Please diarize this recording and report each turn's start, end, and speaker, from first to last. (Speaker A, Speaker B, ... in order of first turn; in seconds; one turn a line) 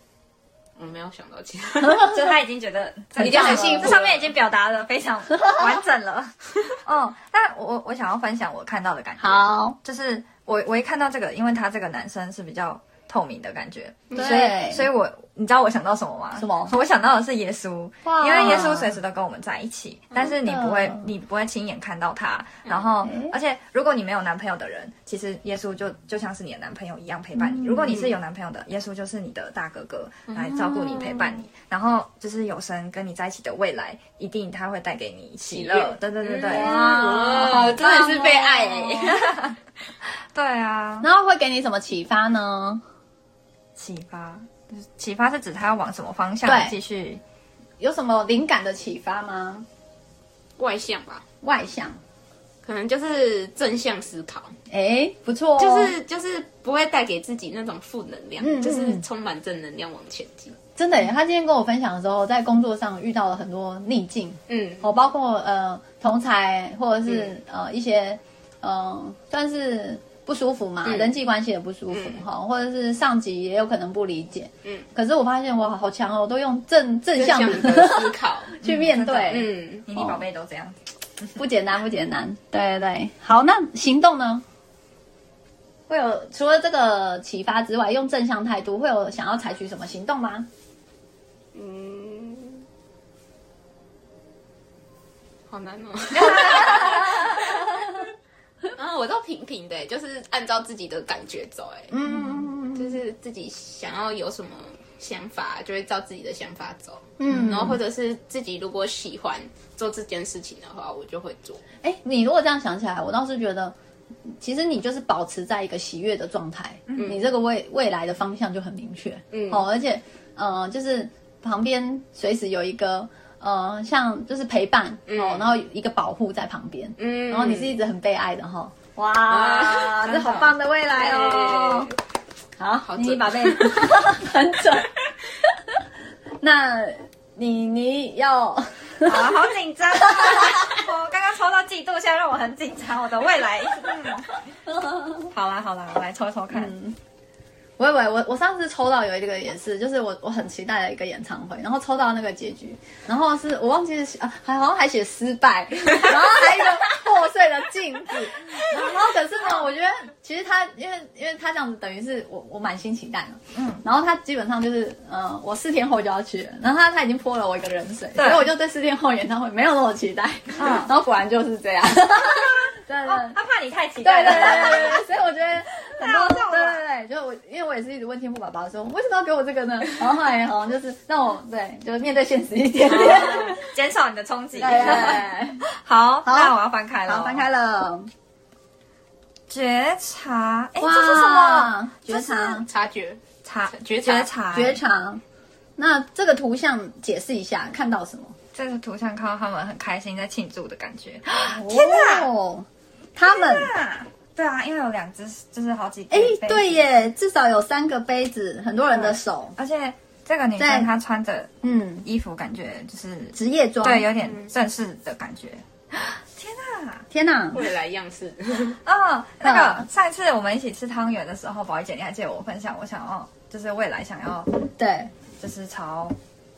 Speaker A: 0.8-2.1
Speaker B: 1.8-2.2
Speaker C: 2.0-37.8
Speaker B: 3.2-4.0
Speaker A: 3.2-4.3
Speaker B: 5.4-5.7
Speaker B: 9.2-9.8
Speaker B: 14.1-14.9
Speaker B: 16.4-16.7
Speaker B: 18.0-19.0
Speaker B: 20.4-21.1
Speaker B: 23.0-23.3
Speaker B: 27.4-28.0
Speaker A: 30.3-31.3
Speaker A: 35.5-39.3
Speaker B: 36.5-39.2
Speaker C: 39.1-41.1
Speaker B: 41.0-42.8
Speaker C: 43.8-47.2
Speaker B: 46.5-46.8
Speaker B: 47.8-49.7
Speaker A: 50.6-51.2
Speaker B: 51.4-52.0
Speaker A: 52.6-54.5
Speaker B: 54.7-56.0
Speaker A: 55.6-60.6
Speaker B: 58.4-59.0
Speaker B: 60.8-80.2
Speaker A: 64.5-64.9
Speaker A: 67.1-67.3
Speaker A: 70.8-71.1
Speaker A: 71.9-72.2
Speaker A: 77.2-78.6
Speaker C: 78.6-80.8
Speaker A: 79.3-79.9
Speaker B: 81.4-84.4
Speaker B: 85.9-90.5
Speaker A: 91.5-92.7
Speaker A: 95.5-98.0
Speaker B: 96.2-98.0
Speaker A: 98.7-111.6
Speaker B: 101.9-103.0
Speaker B: 107.2-107.8
Speaker B: 111.8-113.8
Speaker B: 114.4-131.9
Speaker A: 117.0-117.3
Speaker A: 119.3-119.6
Speaker A: 125.1-125.5
Speaker A: 127.0-127.8
Speaker A: 129.3-131.9
Speaker B: 132.6-134.9
Speaker A: 132.9-134.0
Speaker B: 136.4-139.4
Speaker C: 139.0-144.3
Speaker B: 140.1-140.8
Speaker B: 144.9-145.1
Speaker C: 145.3-146.7
Speaker B: 146.5-147.0
Speaker B: 147.8-173.4
Speaker C: 163.5-163.8
Speaker C: 168.2-168.5
Speaker C: 170.6-170.9
Speaker C: 173.1-175.1
Speaker B: 174.0-183.7
Speaker C: 175.9-176.8
Speaker C: 182.9-187.5
Speaker B: 184.6-185.6
Speaker B: 186.2-186.5
Speaker B: 187.1-188.1
Speaker C: 189.5-192.6
Speaker B: 190.8-192.7
Speaker A: 192.7-194.3
Speaker C: 193.4-194.8
Speaker B: 194.5-195.2
Speaker B: 195.8-198.4
Speaker C: 198.6-202.3
Speaker B: 201.3-203.7
Speaker C: 203.2-206.8
Speaker B: 206.1-209.6
Speaker C: 208.9-211.5
Speaker B: 210.6-210.9
Speaker B: 211.6-212.1
Speaker C: 212.0-217.1
Speaker B: 213.3-214.1
Speaker B: 217.1-217.6
Speaker A: 217.5-218.8
Speaker C: 218.8-224.5
Speaker B: 219.4-219.9
Speaker B: 224.8-225.1
Speaker C: 225.4-226.2